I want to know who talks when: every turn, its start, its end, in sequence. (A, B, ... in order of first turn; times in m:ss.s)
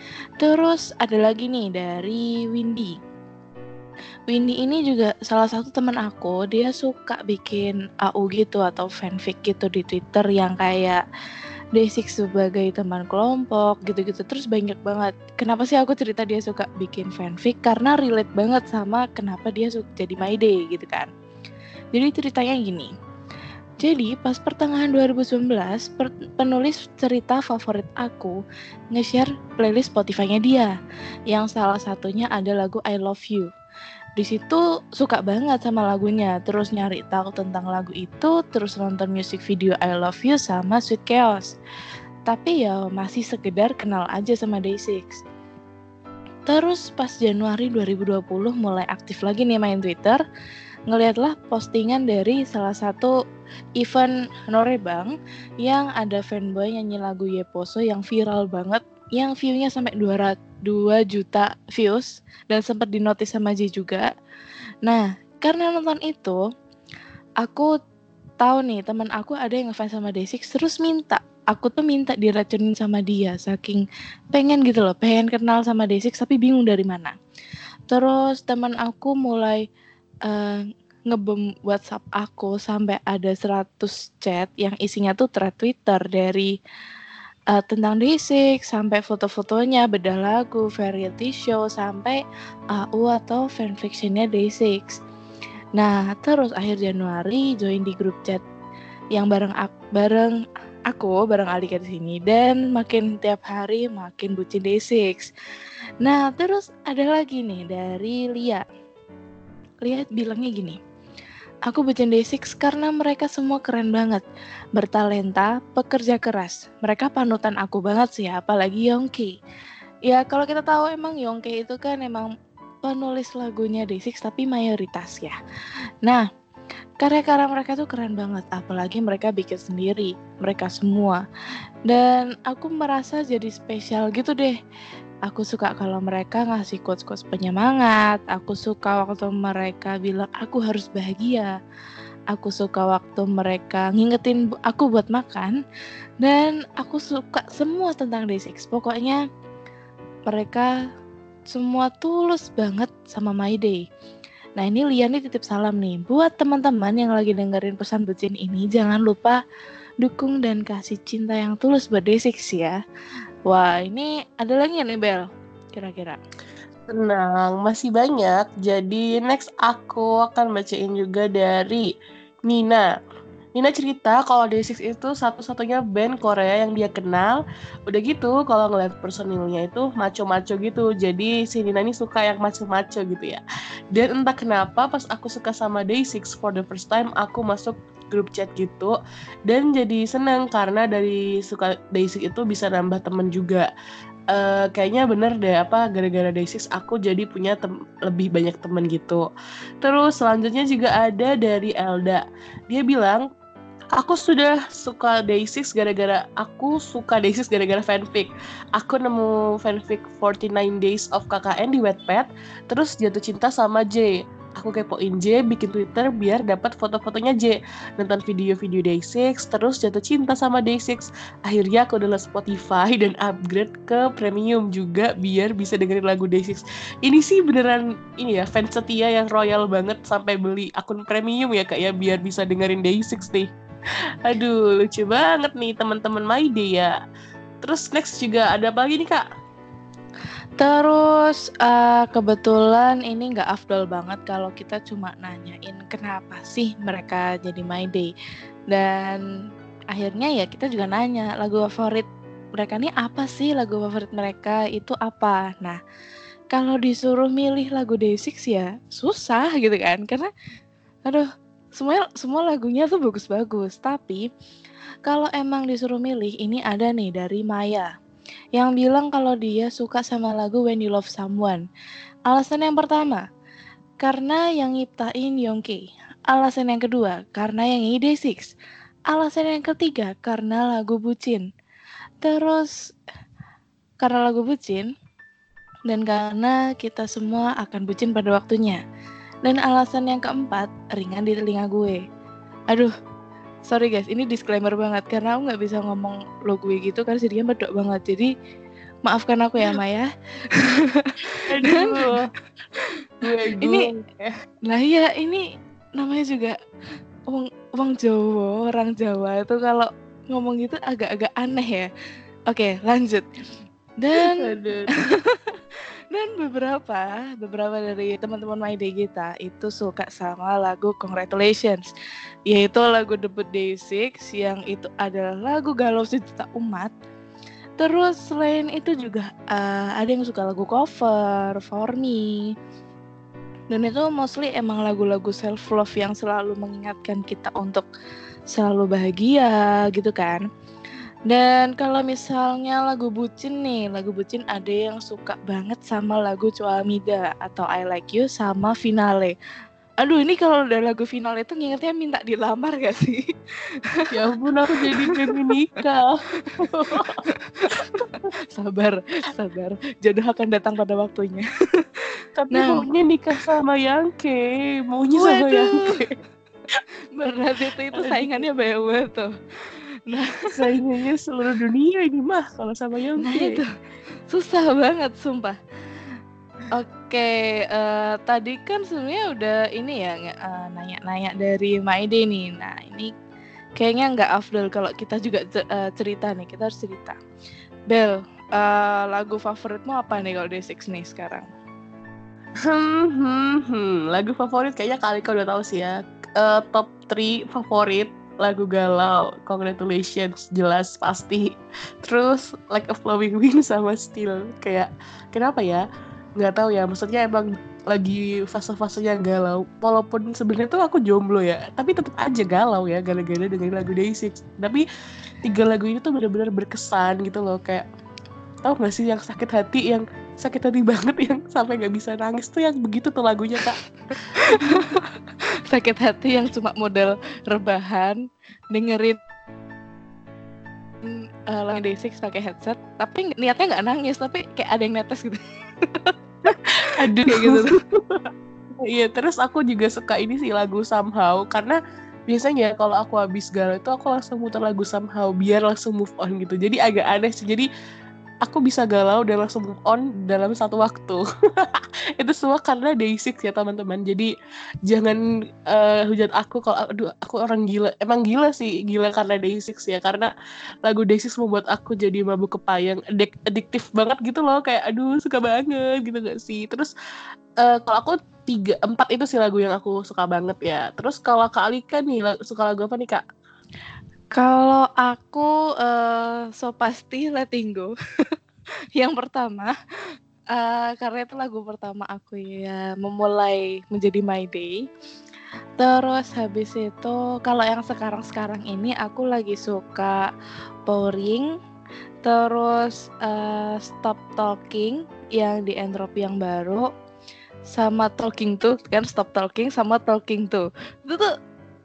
0:00.4-0:03.0 A
0:04.3-0:11.0 A
0:11.8-0:21.1 A
0:21.9-0:22.9 A
0:23.8-0:28.4 A
0:28.9-0:30.8 A
0:31.3-0:33.5 A
0:34.2-0:41.6 A
0:42.3-0:45.2 A
0:46.5-0:50.2 A
0:50.9-0:53.1 A
0:53.8-1:04.1 A
1:04.8-1:06.4 A
1:07.4-1:07.7 A
1:08.4-1:17.2 A
1:17.9-1:19.6 A
1:20.3-1:26.5 A
1:27.5-1:32.2 A
1:32.7-1:35.0 A
1:35.8-1:38.4 A
1:39.2-1:40.4 A
1:40.9-1:45.3 A
1:46.0-1:48.6 A
1:49.8-1:50.8 A
1:51.7-1:54.2 A
1:54.8-1:59.4 A
2:00.1-2:02.3 A
2:02.8-2:05.4 A
2:07.0-2:11.2 A
2:11.9-2:14.6 A
2:15.3-2:21.6 A
2:22.3-2:25.6 A
2:26.2-2:29.2 A
2:30.3-2:30.7 A
2:31.5-2:33.8 A
2:34.6-2:39.4 A
2:40.0-2:42.8 A
2:43.5-2:46.2 A
2:46.9-2:51.9 B
2:52.5-2:52.8 B
2:53.6-3:03.4 B
3:03.9-3:09.0 B
3:09.5-3:13.7 B
3:14.3-3:19.3 B
3:19.8-3:23.2 B
3:24.0-3:53.5 B
3:54.2-3:57.0 B
3:57.6-3:59.2 B
4:00.6-4:08.1 A
4:08.7-4:09.2 A
4:09.9-4:12.1 A
4:12.6-4:15.8 A
4:16.5-4:20.3 A
4:21.1-4:24.3 A
4:25.1-4:27.9 A
4:28.6-4:31.6 A
4:32.3-4:33.2 A
4:34.0-4:38.5 A
4:39.1-4:41.5 A
4:42.2-4:42.8 A
4:44.0-4:44.9 A
4:45.9-4:48.8 A
4:49.4-4:52.0 A
4:53.7-4:58.3 A
4:59.1-5:02.1 A
5:01.5-5:02.3 B
5:03.2-5:04.3 B
5:03.6-5:03.9 A
5:04.7-5:05.4 A
5:06.0-5:06.6 A
5:07.3-5:11.9 A
5:12.5-5:13.3 A
5:14.0-5:14.5 A
5:14.2-5:14.9 B
5:15.1-5:15.6 A
5:16.1-5:21.9 A
5:22.5-5:27.0 A
5:27.8-5:32.5 A
5:33.7-5:37.8 A
5:38.5-5:40.4 A
5:41.3-5:49.4 A
5:50.0-5:53.2 A
5:54.1-5:57.2 B
5:54.8-5:55.4 A
5:56.4-6:01.9 A
6:02.4-6:06.1 B
6:02.5-6:02.8 A
6:05.2-6:06.0 A
6:07.2-6:09.3 A
6:08.0-6:08.4 B
6:10.1-6:10.5 A
6:10.5-6:13.6 B
6:13.2-6:13.7 A
6:14.3-6:15.6 A
6:16.7-6:23.1 A
6:23.8-6:27.2 A
6:27.9-6:31.5 A
6:32.7-6:45.8 B
6:46.4-6:54.8 B
6:55.4-6:57.9 B
6:58.6-7:03.8 B
7:04.3-7:05.1 A
7:04.5-7:04.9 B
7:05.7-7:09.2 A
7:11.0-7:17.8 A
7:17.0-7:18.3 B
7:18.8-7:21.8 B
7:22.3-7:27.7 B
7:28.4-7:34.3 B
7:34.9-7:40.3 B
7:40.8-7:46.9 B
7:47.6-7:53.2 B
7:54.4-7:58.0 A
7:59.0-7:59.8 A
8:00.5-8:04.9 A
8:05.8-8:10.3 A
8:10.9-8:11.5 A
8:12.2-8:16.9 A
8:17.7-8:21.3 A